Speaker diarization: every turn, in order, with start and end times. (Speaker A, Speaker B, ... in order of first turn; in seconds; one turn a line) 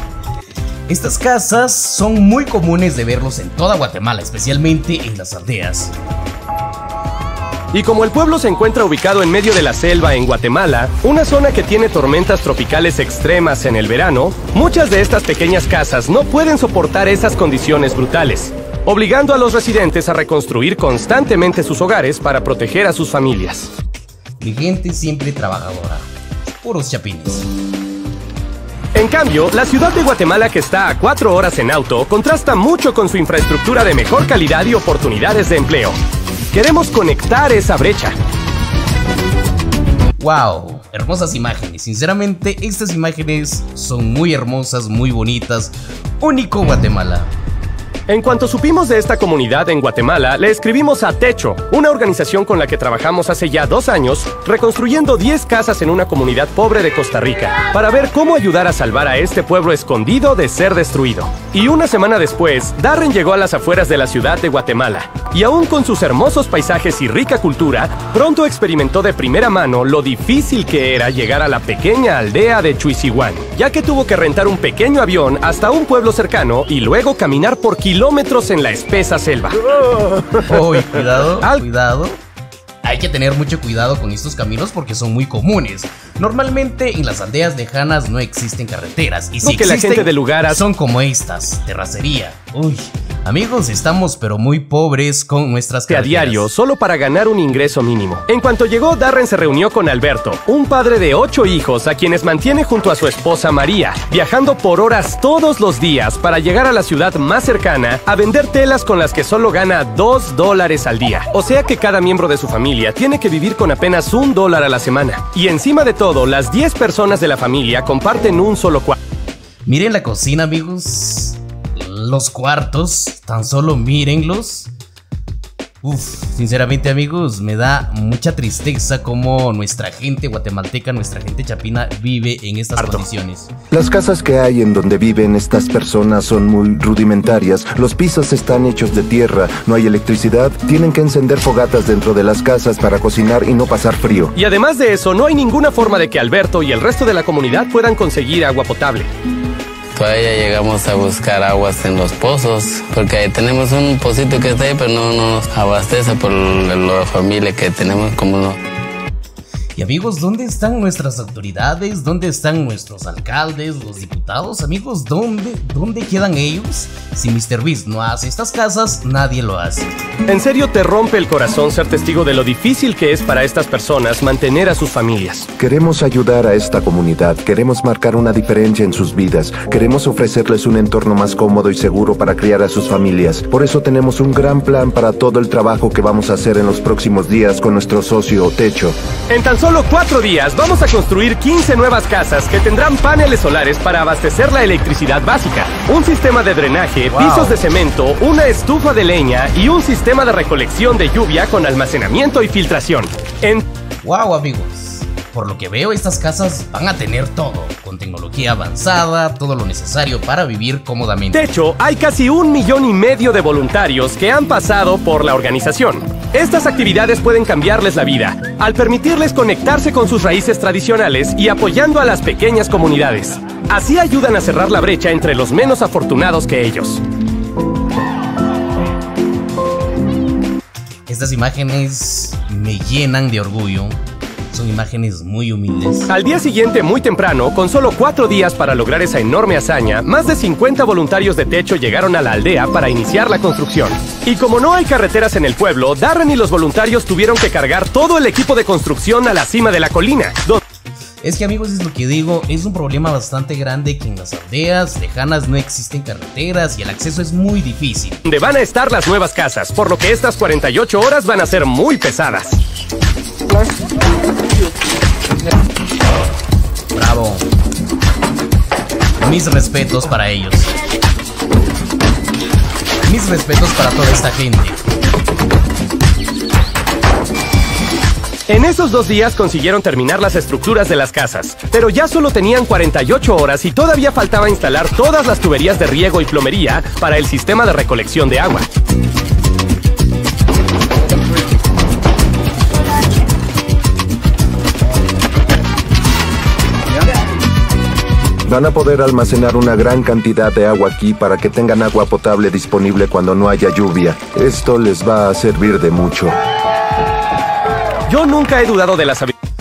Speaker A: 0.9-5.9
Speaker B: 7.7-23.7
Speaker A: 24.4-27.5
Speaker B: 28.9-36.0
Speaker B: 36.5-38.1
Speaker A: 40.2-47.3
Speaker B: 48.1-80.0
Speaker A: 80.3-82.2
Speaker A: 82.8-96.5
Speaker B: 89.4-90.6
Speaker B: 95.9-119.0
Speaker A: 119.7-124.7
Speaker A: 125.8-133.5
Speaker B: 132.8-133.0
Speaker C: 133.7-144.3
Speaker B: 144.3-149.1
Speaker D: 149.9-158.6
Speaker A: 159.8-169.9
Speaker B: 170.3-175.5
Speaker C: 175.6-188.9
Speaker B: 189.3-203.6
Speaker A: 197.1-197.6
Speaker A: 204.0-211.5
Speaker B: 211.3-227.0
Speaker A: 231.1-234.0
Speaker A: 234.5-236.1
Speaker B: 236.1-250.6
Speaker A: 251.2-258.2
Speaker B: 258.2-262.6
Speaker A: 266.9-267.5
Speaker A: 269.2-270.7
Speaker A: 273.0-274.8
Speaker B: 278.5-288.7
Speaker C: 298.4-306.4
Speaker B: 308.1-309.3